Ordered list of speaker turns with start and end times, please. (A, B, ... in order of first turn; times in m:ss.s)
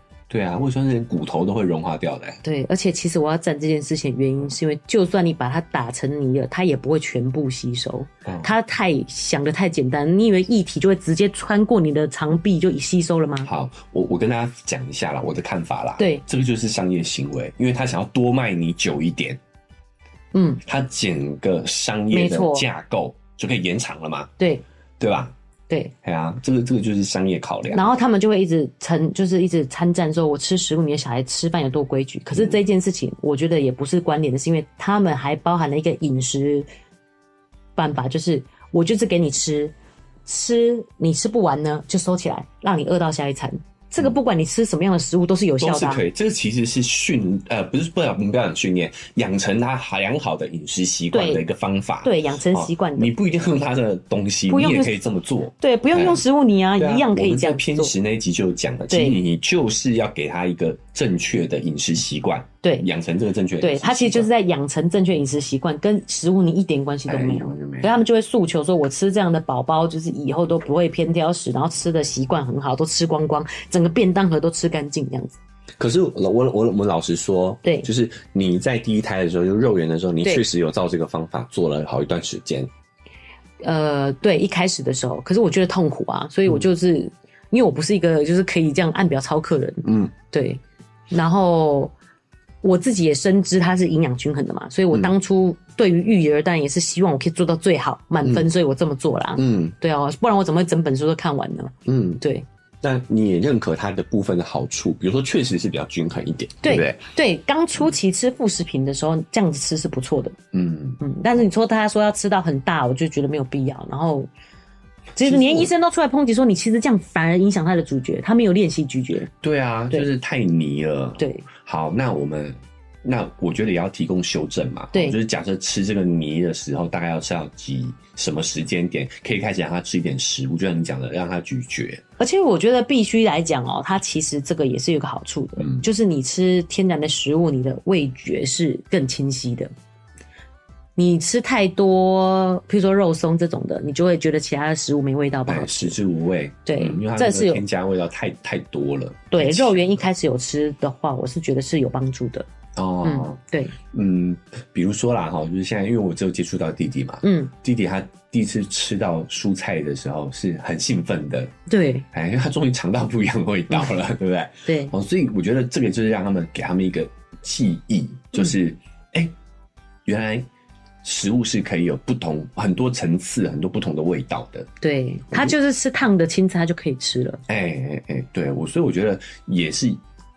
0:00.3-0:02.4 A
0:02.4-0:13.5 B
0:08.2-0:08.5 A
0:13.4-0:19.4 A
0:20.3-0:20.6 B
0:20.6-0:24.3 A
0:22.1-0:22.6 B
0:25.0-0:25.3 A
0:26.0-0:27.9 A
0:27.7-0:36.7 B
0:37.8-0:39.7 B
0:40.2-0:46.0 B
0:45.6-0:56.2 A
0:51.1-0:51.4 B
0:52.0-0:53.1 B
0:54.5-0:54.9 B
0:55.6-0:57.9 B
0:56.8-1:04.3 A
0:58.9-0:59.2 B
1:03.6-1:15.4 B
1:07.1-1:08.0 A
1:15.8-1:22.7 A
1:23.6-1:31.9 B
1:29.8-1:30.1 A
1:32.6-1:42.4 B
1:39.4-1:39.7 A
1:41.9-1:42.2 A
1:42.8-1:47.0 A
1:46.6-1:50.4 B
1:50.5-1:51.0 A
1:51.0-1:54.3 B
1:55.2-1:59.3 B
1:55.2-1:55.7 A
1:59.3-2:12.0 A
2:01.2-2:01.5 B
2:12.2-2:19.7 B
2:15.6-2:15.8 A
2:21.0-2:26.0 B
2:25.5-2:30.0 A
2:26.6-2:27.6 B
2:29.3-2:32.4 B
2:32.8-2:41.5 A
2:33.0-2:33.8 B
2:37.2-2:37.5 B
2:41.7-2:42.0 B
2:42.1-2:49.3 A
2:44.6-2:44.9 B
2:50.0-2:50.5 A
2:51.0-2:54.7 A
2:54.8-2:57.4 B
2:57.5-3:00.0 A